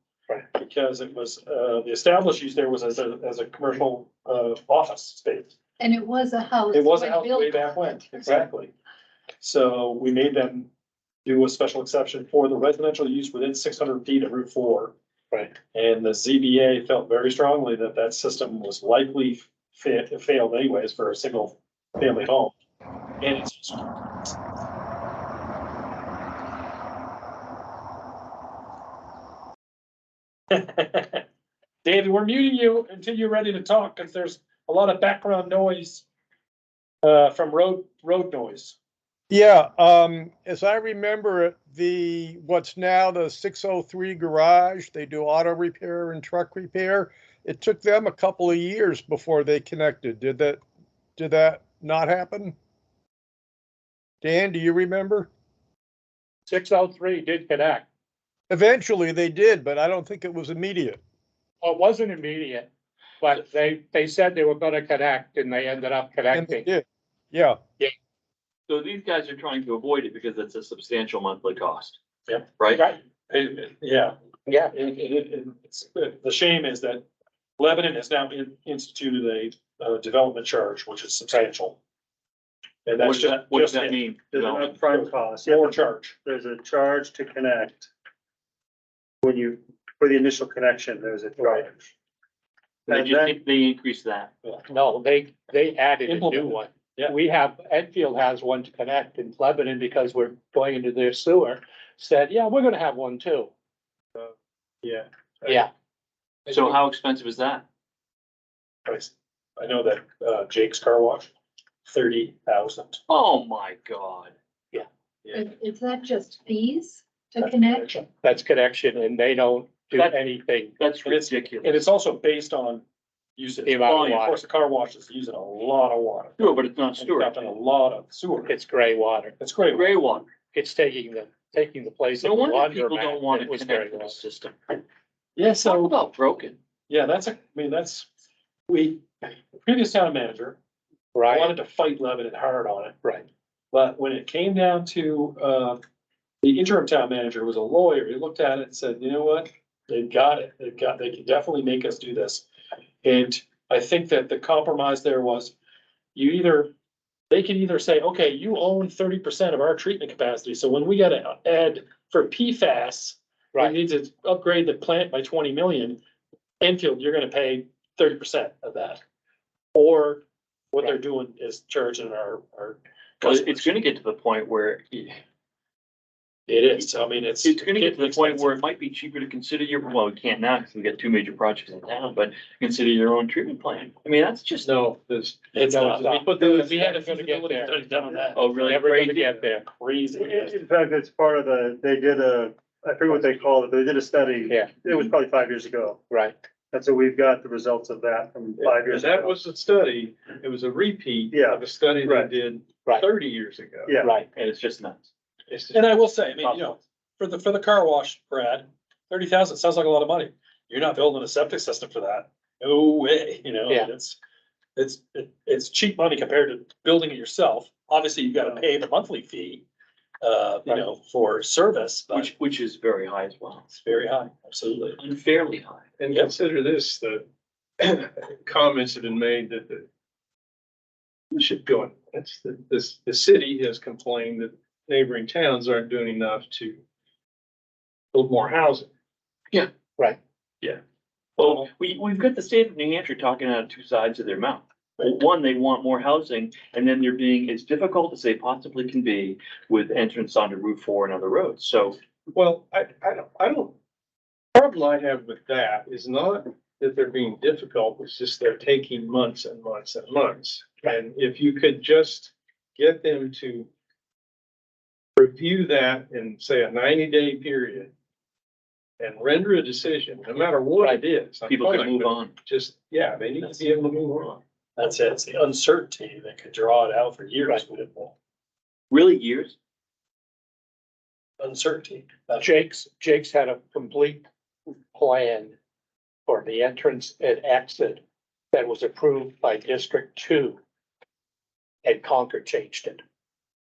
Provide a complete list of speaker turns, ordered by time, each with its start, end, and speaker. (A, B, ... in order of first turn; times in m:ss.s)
0:00.5-0:05.6 A
0:05.8-0:08.2 B
0:06.7-0:08.7 A
0:09.4-0:10.7 A
0:11.2-0:14.9 A
0:15.7-0:22.5 A
0:23.2-0:24.3 A
0:30.5-0:31.2 A
0:31.8-0:36.0 A
0:37.0-0:38.8 A
0:39.3-0:50.6 C
0:51.2-0:52.5 C
0:54.2-0:55.3 C
0:56.5-0:57.8 D
0:58.5-1:01.0 C
1:01.6-1:02.7 D
1:03.2-1:06.6 D
1:06.3-1:07.6 C
1:08.7-1:12.0 E
1:12.6-1:12.8 E
1:13.3-1:14.2 A
1:14.5-1:14.7 D
1:14.7-1:17.0 A
1:17.6-1:21.8 A
1:22.8-1:24.0 A
1:23.0-1:24.7 E
1:24.3-1:27.9 F
1:24.8-1:26.1 A
1:29.2-1:31.9 F
1:32.9-1:34.3 E
1:32.9-1:33.4 F
1:34.7-1:43.5 D
1:36.1-1:37.2 A
1:46.5-1:46.8 D
1:46.5-1:47.6 E
1:48.8-1:51.3 A
1:51.8-1:53.0 A
1:53.1-1:54.3 E
1:55.3-1:58.0 B
1:57.4-1:58.0 A
1:58.2-2:00.7 D
2:00.8-2:01.8 E
2:01.0-2:02.8 A
2:03.4-2:08.5 A
2:03.6-2:04.3 D
2:03.9-2:04.3 E
2:06.4-2:07.5 E
2:08.5-2:09.3 D
2:09.4-2:09.9 A
2:09.7-2:10.3 E
2:10.5-2:14.2 D
2:12.2-2:14.8 E
2:15.4-2:15.9 A
2:15.6-2:16.6 E
2:16.9-2:18.1 A
2:18.7-2:20.6 A
2:21.1-2:21.5 D
2:21.3-2:23.0 A
2:23.7-2:25.8 A
2:26.4-2:32.4 A
2:33.0-2:35.5 A
2:36.1-2:36.7 A
2:37.3-2:46.0 A
2:46.6-2:49.0 A
2:49.7-2:53.7 A
2:53.2-2:55.2 E
2:56.5-2:58.5 A
2:57.4-3:04.8 E
3:04.6-3:07.0 G
3:05.5-3:08.5 A
3:05.6-3:07.8 D
3:08.3-3:09.3 E
3:08.4-3:09.6 D
3:09.1-3:10.6 A
3:10.2-3:16.0 F
3:14.5-3:14.9 D
3:16.1-3:16.4 D
3:16.7-3:19.4 F
3:18.6-3:24.0 G
3:21.3-3:22.3 F
3:23.8-3:24.1 F
3:24.0-3:24.3 D
3:24.3-3:25.0 E
3:25.5-3:26.6 G
3:25.7-3:34.2 A
3:34.8-3:39.6 A
3:40.2-3:42.3 A
3:42.1-3:43.7 E
3:43.7-3:45.0 A
3:45.0-3:45.8 E
3:46.0-3:47.2 G
3:47.8-3:49.8 G
3:51.3-3:56.8 G
3:58.1-3:58.9 G
4:01.4-4:12.0 E
4:12.3-4:13.8 G
4:14.5-4:23.7 G
4:25.2-4:27.9 G
4:29.0-4:34.4 G
4:31.5-4:32.3 E
4:34.8-4:38.2 A
4:38.9-4:39.5 E
4:41.4-4:42.5 A
4:42.4-4:44.2 D
4:44.9-4:45.5 D
4:46.3-4:50.6 D
4:51.8-4:53.0 D